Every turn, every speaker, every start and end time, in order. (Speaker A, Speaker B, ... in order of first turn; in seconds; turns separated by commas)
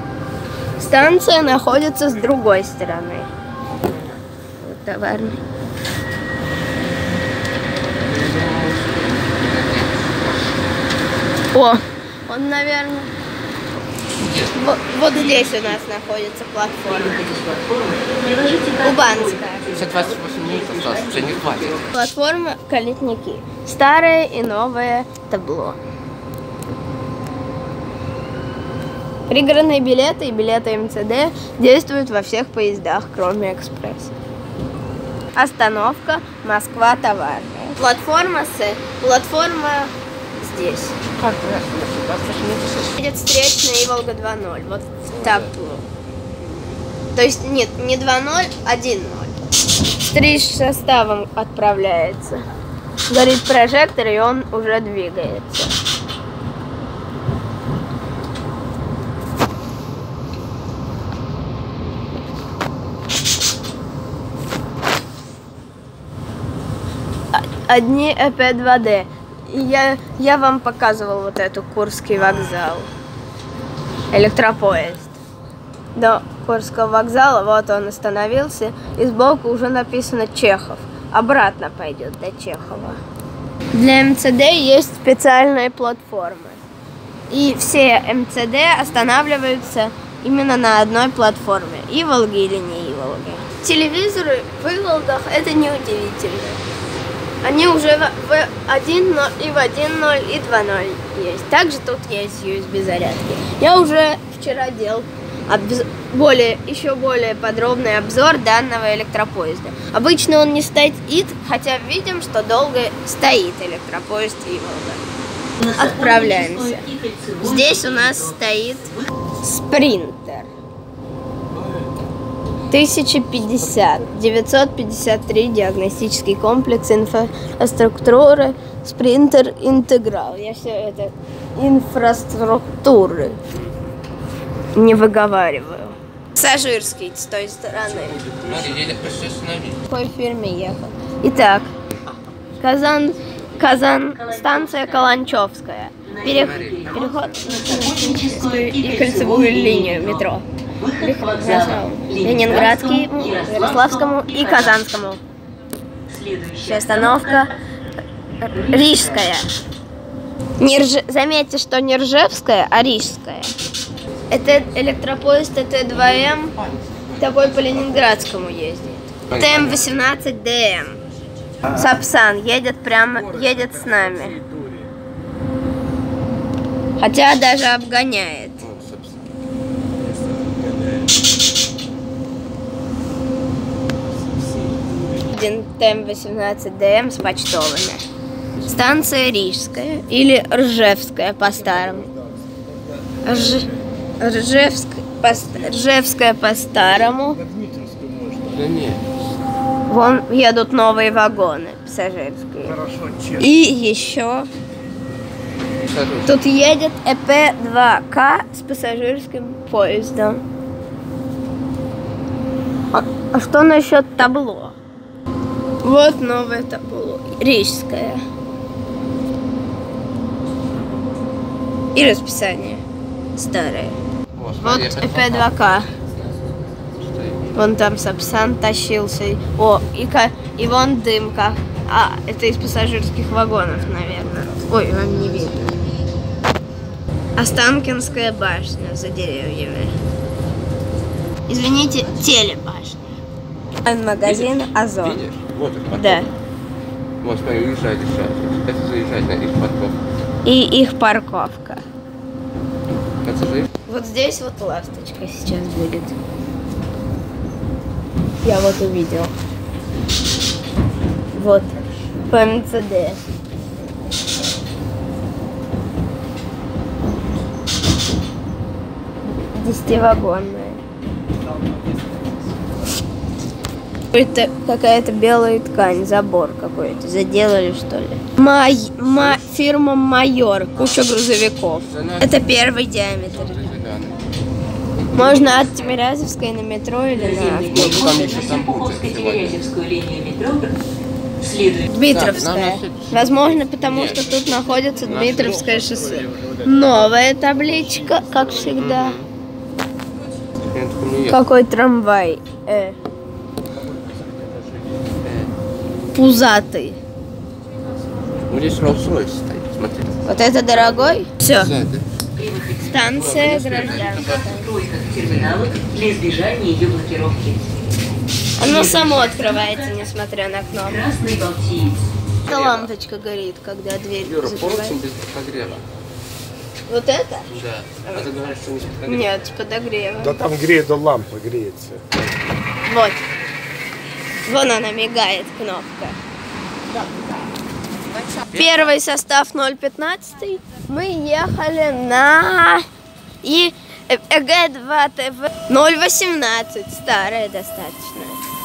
Speaker A: 0.8-3.3, Speaker B: 1.0-1.4, Speaker C: 3.8-4.2, Speaker A: 4.6-5.4, Speaker C: 8.0-10.6, Speaker A: 11.5-13.1, Speaker C: 14.2-14.8, Speaker A: 14.5-17.2, Speaker D: 15.1-15.8, Speaker D: 16.9-21.9, Speaker A: 18.8-19.6, Speaker C: 19.7-21.9, Speaker A: 21.9-25.8, Speaker A: 29.3-34.1, Speaker A: 35.4-41.0, Speaker C: 41.1-43.0, Speaker A: 43.0-45.8, Speaker C: 45.1-45.5, Speaker A: 47.1-49.3, Speaker A: 50.1-52.4, Speaker A: 53.1-55.7, Speaker A: 67.3-72.9, Speaker A: 74.1-75.2, Speaker A: 76.0-83.0, Speaker A: 83.7-86.6, Speaker A: 87.3-96.6, Speaker A: 97.4-115.0, Speaker D: 115.6-119.1, Speaker A: 115.7-116.9, Speaker A: 117.4-120.5, Speaker A: 122.7-133.4, Speaker A: 134.8-138.2, Speaker B: 138.0-138.7, Speaker C: 138.5-139.8, Speaker A: 139.9-141.7, Speaker A: 142.6-150.4, Speaker D: 144.1-145.2, Speaker D: 146.1-150.2, Speaker C: 146.2-147.3, Speaker D: 150.8-154.8, Speaker A: 151.0-155.2, Speaker D: 156.1-157.5, Speaker A: 156.6-157.5, Speaker A: 158.4-159.5, Speaker D: 158.5-159.3, Speaker A: 160.6-163.5, Speaker A: 164.3-166.6, Speaker C: 165.9-168.1, Speaker A: 167.2-171.0, Speaker C: 169.3-170.0, Speaker A: 171.7-174.4, Speaker B: 173.1-174.9, Speaker A: 177.0-178.7, Speaker C: 178.6-179.3, Speaker B: 180.1-181.1, Speaker B: 184.4-185.1, Speaker A: 185.3-188.0, Speaker A: 188.6-192.1, Speaker B: 191.7-193.7, Speaker A: 193.2-193.7, Speaker A: 194.2-197.4, Speaker B: 195.3-195.7, Speaker B: 197.1-198.6, Speaker C: 198.5-199.1, Speaker A: 199.9-202.8, Speaker B: 202.6-203.5, Speaker A: 203.4-204.5, Speaker C: 205.8-206.4, Speaker A: 206.3-210.4, Speaker A: 212.9-214.8, Speaker A: 215.8-218.2, Speaker A: 221.9-222.8, Speaker A: 223.4-224.0, Speaker C: 224.4-227.5, Speaker A: 224.6-225.9, Speaker A: 227.6-235.7, Speaker A: 237.4-239.9, Speaker A: 241.5-243.0, Speaker A: 243.8-245.2, Speaker C: 244.2-246.3, Speaker A: 245.9-246.3, Speaker C: 247.2-250.0, Speaker A: 250.4-251.8, Speaker C: 253.2-253.7, Speaker A: 253.9-256.2, Speaker A: 258.4-259.3, Speaker A: 261.4-261.7, Speaker A: 262.3-263.2, Speaker A: 269.5-270.8, Speaker B: 271.6-272.1, Speaker A: 274.1-283.6, Speaker C: 281.9-282.7, Speaker C: 283.3-284.2, Speaker C: 284.9-286.0, Speaker A: 285.1-287.9, Speaker D: 287.1-290.7, Speaker C: 287.7-289.6, Speaker D: 291.4-291.9, Speaker A: 291.9-299.2, Speaker C: 292.1-294.4, Speaker C: 295.0-295.6, Speaker B: 295.1-298.6, Speaker C: 298.6-299.3, Speaker C: 300.7-301.4, Speaker A: 301.3-303.0, Speaker B: 303.7-305.1, Speaker C: 305.2-305.5, Speaker A: 306.1-307.0, Speaker C: 308.5-312.1, Speaker A: 310.3-311.7, Speaker D: 312.4-317.6, Speaker A: 312.8-314.7, Speaker C: 312.9-315.9, Speaker A: 318.6-321.0, Speaker D: 318.6-320.0, Speaker D: 320.8-322.1, Speaker C: 322.4-322.9, Speaker A: 322.5-325.0, Speaker C: 324.2-325.9, Speaker A: 326.9-327.5, Speaker C: 327.5-329.3, Speaker A: 329.1-330.4, Speaker B: 330.2-332.1, Speaker A: 332.9-333.2, Speaker A: 334.5-336.2, Speaker C: 336.9-337.4, Speaker C: 338.0-338.9, Speaker A: 338.5-342.9, Speaker A: 343.4-348.4